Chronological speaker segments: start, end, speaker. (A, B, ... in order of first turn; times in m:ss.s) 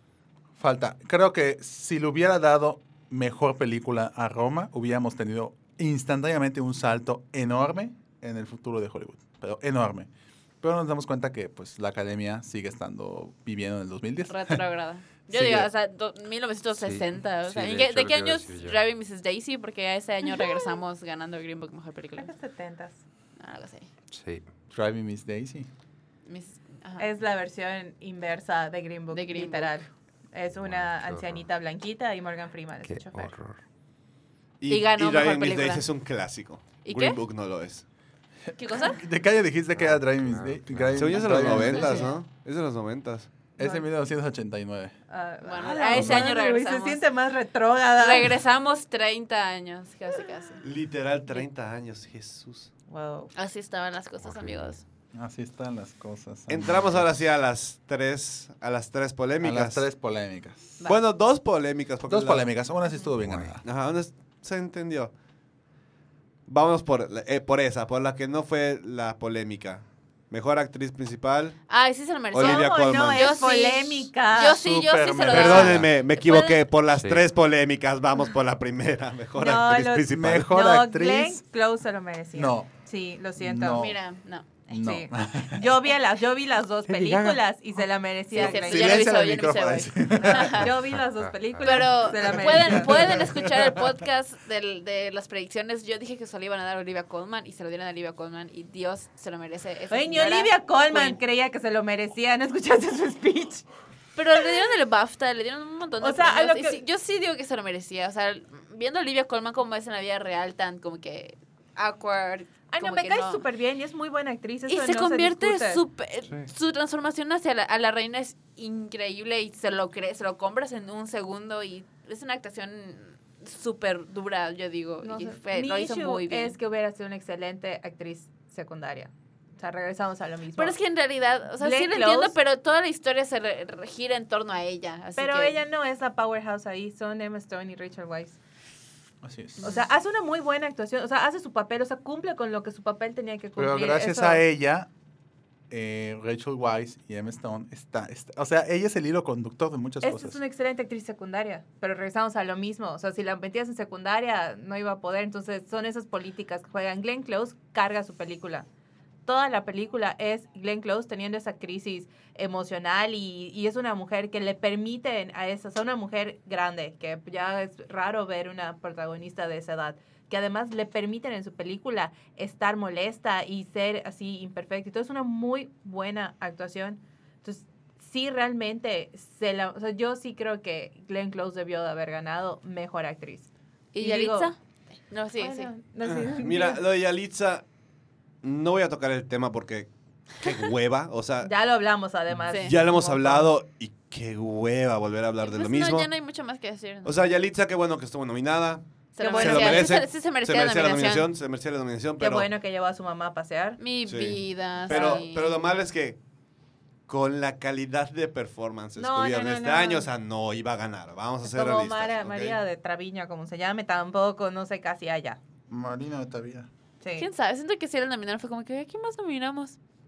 0:00.6-0:10.1 A
0:10.6-0:14.6 A
0:14.3-0:22.3 B
0:15.3-0:15.7 A
0:16.7-0:18.8 C
0:22.2-0:23.0 D
0:23.4-0:23.9 B
0:24.1-0:24.5 C
0:24.7-0:25.7 A
0:26.2-0:27.1 B
0:27.0-0:33.3 D
0:29.1-0:29.7 B
0:30.5-0:31.4 C
0:32.8-0:33.6 C
0:34.6-0:37.8 E
0:34.7-0:35.9 B
0:36.8-0:37.2 B
0:38.5-0:42.1 A
0:38.6-0:39.0 B
0:39.7-0:41.8 C
0:41.0-0:43.3 E
0:43.6-0:44.9 A
0:43.6-0:43.8 D
0:45.1-0:48.4 D
0:45.4-0:47.0 B
0:45.9-0:46.3 A
0:47.9-0:50.6 B
0:50.6-0:52.7 E
0:52.9-0:53.3 D
0:53.3-0:54.8 B
0:54.2-0:54.8 C
0:55.1-0:57.1 A
0:56.5-0:59.8 E
0:59.4-1:00.8 A
1:00.8-1:02.5 E
1:02.1-1:03.6 A
1:03.2-1:03.6 C
1:03.6-1:05.1 E
1:06.4-1:11.6 E
1:11.7-1:16.7 B
1:12.3-1:13.4 E
1:12.4-1:14.6 D
1:14.5-1:15.9 A
1:15.3-1:20.5 E
1:16.9-1:17.2 C
1:19.4-1:23.8 D
1:20.1-1:21.4 A
1:22.3-1:22.7 A
1:23.4-1:24.0 A
1:23.7-1:24.5 B
1:24.7-1:25.6 A
1:24.7-1:29.1 D
1:28.3-1:30.7 B
1:28.3-1:30.7 A
1:30.2-1:33.3 D
1:31.6-1:41.2 B
1:32.6-1:33.8 A
1:39.9-1:43.6 D
1:44.2-1:53.5 B
1:46.0-1:46.8 D
1:52.7-1:55.8 D
1:54.7-2:06.6 B
2:05.0-2:10.7 D
2:10.6-2:15.6 B
2:11.6-2:12.3 D
2:15.2-2:18.4 D
2:19.2-2:19.7 A
2:19.6-2:24.4 D
2:23.6-2:24.9 A
2:25.7-2:30.4 A
2:30.0-2:38.7 D
2:39.2-3:04.5 D
3:03.9-3:04.6 B
3:05.1-3:05.7 B
3:05.4-3:06.8 D
3:06.0-3:07.6 E
3:08.4-3:11.5 E
3:11.4-3:13.5 D
3:12.5-3:12.8 B
3:12.6-3:16.1 E
3:15.4-3:17.1 B
3:17.0-3:18.8 E
3:19.1-3:21.3 B
3:19.2-3:20.0 D
3:19.4-3:22.5 E
3:22.2-3:23.8 D
3:23.8-3:25.7 B
3:24.0-3:26.2 E
3:24.9-3:25.2 D
3:27.1-3:32.6 E
3:29.0-3:30.1 D
3:31.4-3:35.4 D
3:35.7-3:36.7 A
3:37.0-3:37.3 D
3:37.2-3:39.8 B